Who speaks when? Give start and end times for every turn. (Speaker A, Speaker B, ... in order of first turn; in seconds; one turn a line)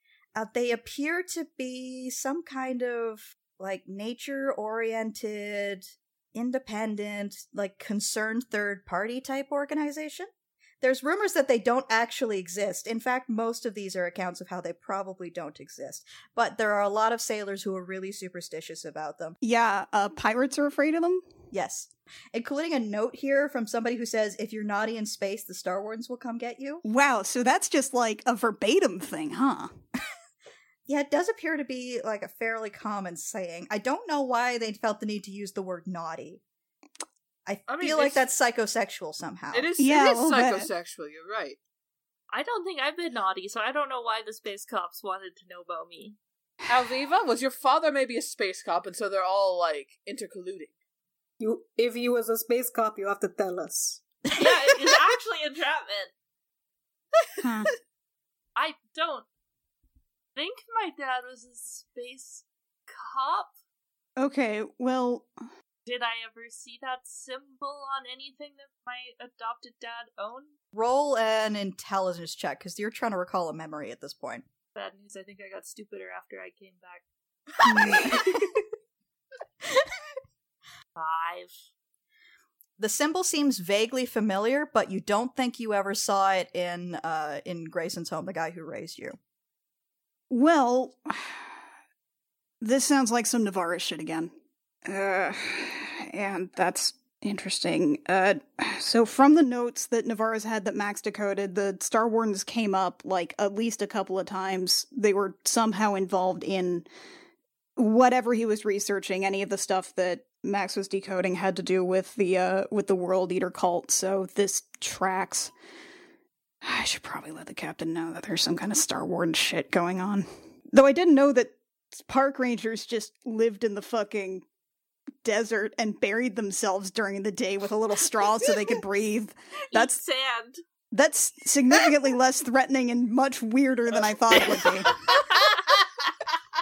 Speaker A: 0.3-10.3
Speaker A: 10.8-19.4
Speaker B: 19.4-21.2
Speaker A: 21.5-26.8
Speaker B: 26.9-29.7
Speaker A: 30.9-36.4
Speaker A: 37.5-39.7
Speaker C: 37.7-38.3
Speaker C: 39.5-41.6
Speaker B: 39.8-40.7
Speaker D: 42.3-46.2
Speaker C: 46.7-50.7
Speaker E: 51.4-54.0
Speaker D: 54.4-56.1
Speaker B: 57.4-57.7
Speaker D: 58.6-59.3
Speaker D: 60.4-63.5
Speaker B: 64.2-65.3
Speaker D: 65.9-70.5
Speaker A: 70.7-74.5
Speaker D: 74.8-77.0
Speaker A: 77.9-78.3
Speaker D: 81.0-81.5
Speaker A: 82.8-89.2
Speaker B: 90.3-91.4
Speaker B: 92.6-94.3
Speaker B: 94.9-106.9
Speaker B: 107.8-115.5
Speaker B: 116.6-124.5
Speaker B: 125.2-130.0
Speaker D: 129.7-130.6
Speaker B: 130.9-135.0